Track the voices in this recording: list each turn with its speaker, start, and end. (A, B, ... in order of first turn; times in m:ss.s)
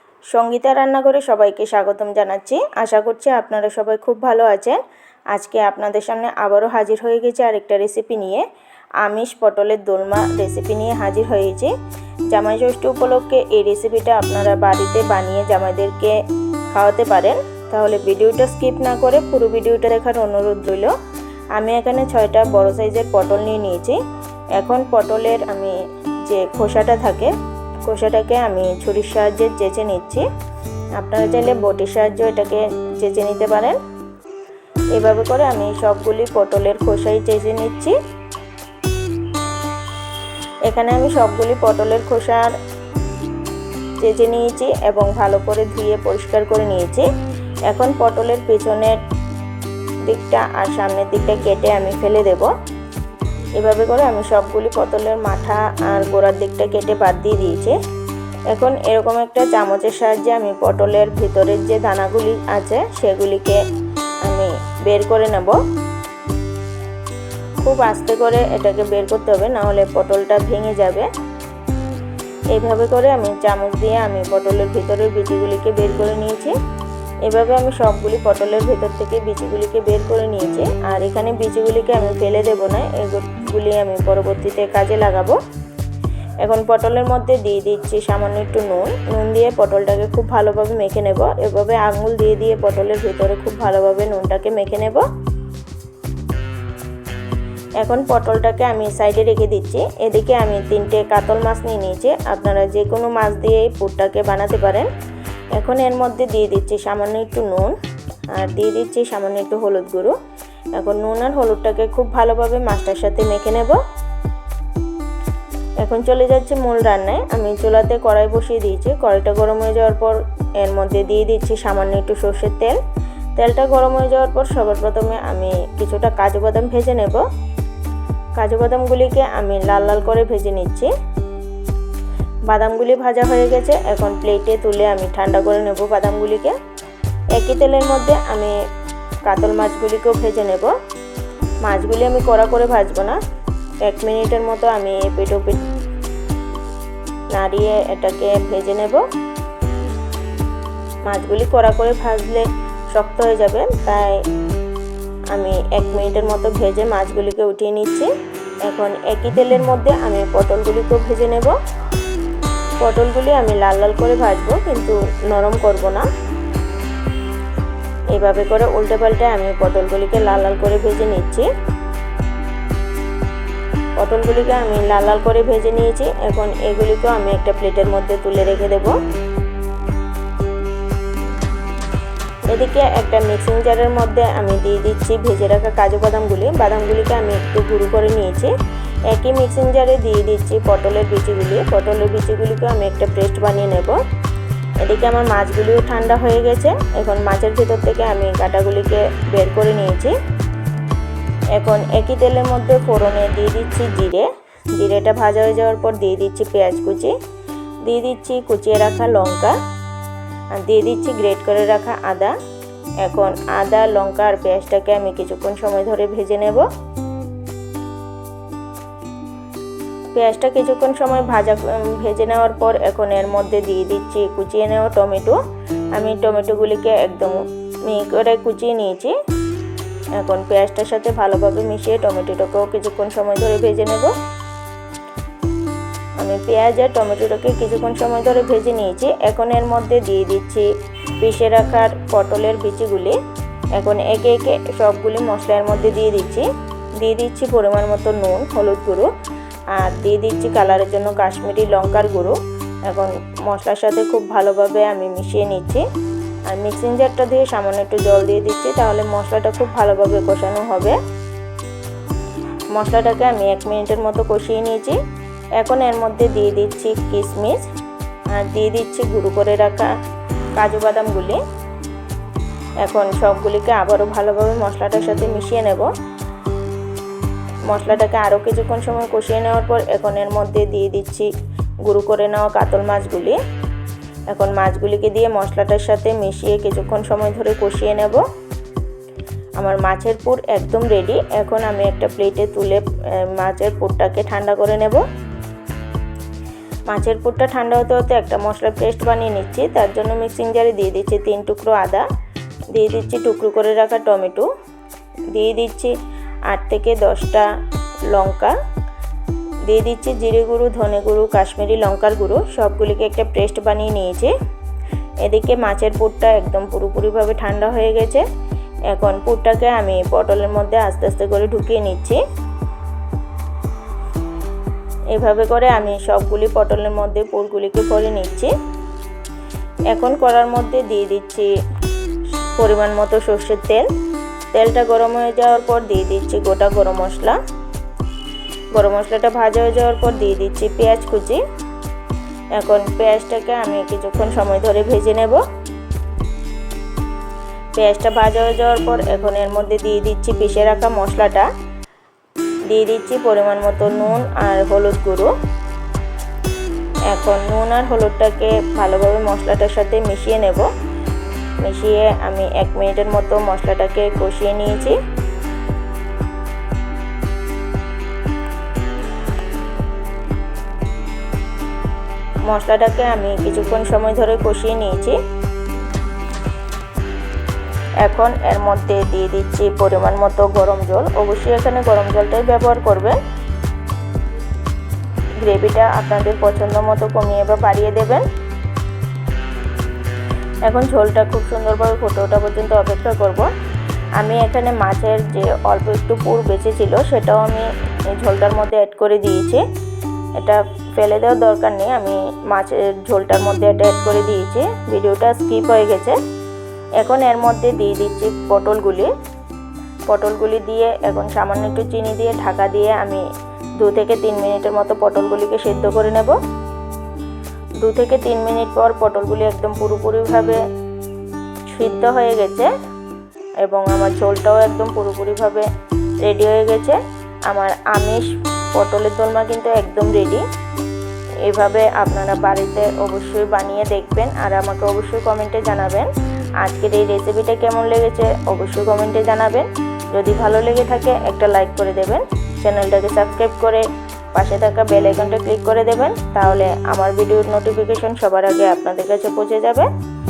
0:00.3-0:04.8 A
0:05.3-0:08.5 A
0:09.0-0:11.7 A
0:12.3-0:16.2 A
0:16.7-0:21.0 A
0:21.6-0:24.0 A
0:24.6-0:27.3 A
0:27.9-0:30.3 A
0:31.0-0:33.8 A
0:34.9-0:38.0 A
0:40.7-0:42.6 A
0:44.0-0:47.1 A
0:47.7-0:49.0 A
0:50.1-0:52.5 A
0:53.6-0:57.8 A
0:58.5-1:03.6 A
1:04.2-1:05.6 A
1:07.6-1:11.1 A
1:12.5-1:16.6 A
1:17.2-1:25.4 A
1:26.4-1:35.1 A
1:37.8-1:44.9 A
1:45.6-1:47.8 A
1:48.3-1:50.2 A
1:50.8-1:53.8 A
1:55.8-2:02.8 A
2:03.4-2:07.2 A
2:08.4-2:10.9 A
2:12.5-2:16.6 A
2:17.4-2:18.6 A
2:19.3-2:20.7 A
2:21.6-2:23.2 A
2:23.8-2:25.7 A
2:27.3-2:29.0 A
2:31.1-2:34.2 A
2:35.3-2:38.1 A
2:38.7-2:41.6 A
2:42.8-2:46.1 A
2:48.1-2:51.5 A
2:54.0-2:59.0 A
3:02.5-3:08.5 A
3:09.1-3:14.0 A
3:14.8-3:20.2 A
3:21.6-3:27.2 A
3:27.8-3:29.6 A
3:30.5-3:32.4 A
3:33.0-3:36.7 A
3:40.2-3:45.4 A
3:46.0-3:49.2 A
3:50.2-3:54.2 A
3:56.2-4:00.7 A
4:01.2-4:03.2 A
4:03.8-4:06.5 A
4:07.0-4:09.1 A
4:09.8-4:15.9 A
4:16.5-4:21.0 A
4:22.8-4:25.0 A
4:25.6-4:27.7 A
4:28.3-4:29.9 A
4:30.6-4:31.4 A
4:32.8-4:35.9 A
4:37.7-4:41.3 A
4:41.9-4:43.4 A
4:44.3-4:48.2 A
4:49.6-4:55.0 A
4:56.9-5:02.1 A
5:02.7-5:04.5 A
5:05.3-5:06.0 A
5:06.5-5:07.5 A
5:08.1-5:08.6 A
5:09.7-5:14.4 A
5:15.2-5:18.2 A
5:18.9-5:22.2 A
5:25.1-5:28.5 A
5:29.9-5:31.5 A
5:32.6-5:33.9 A
5:34.5-5:37.4 A
5:38.8-5:41.4 A
5:42.6-5:45.4 A
5:47.8-5:51.5 A
5:52.7-5:55.3 A
5:57.1-6:00.7 A
6:01.6-6:05.0 A
6:12.5-6:15.2 A
6:18.0-6:23.2 A
6:25.4-6:28.3 A
6:30.7-6:33.5 A
6:34.2-6:39.6 A
6:40.4-6:46.2 A
6:47.0-6:49.1 A
6:50.1-6:53.2 A
6:53.8-6:56.4 A
6:57.8-7:00.6 A
7:01.7-7:02.7 A
7:03.6-7:05.7 A
7:06.2-7:10.4 A
7:11.5-7:29.9 A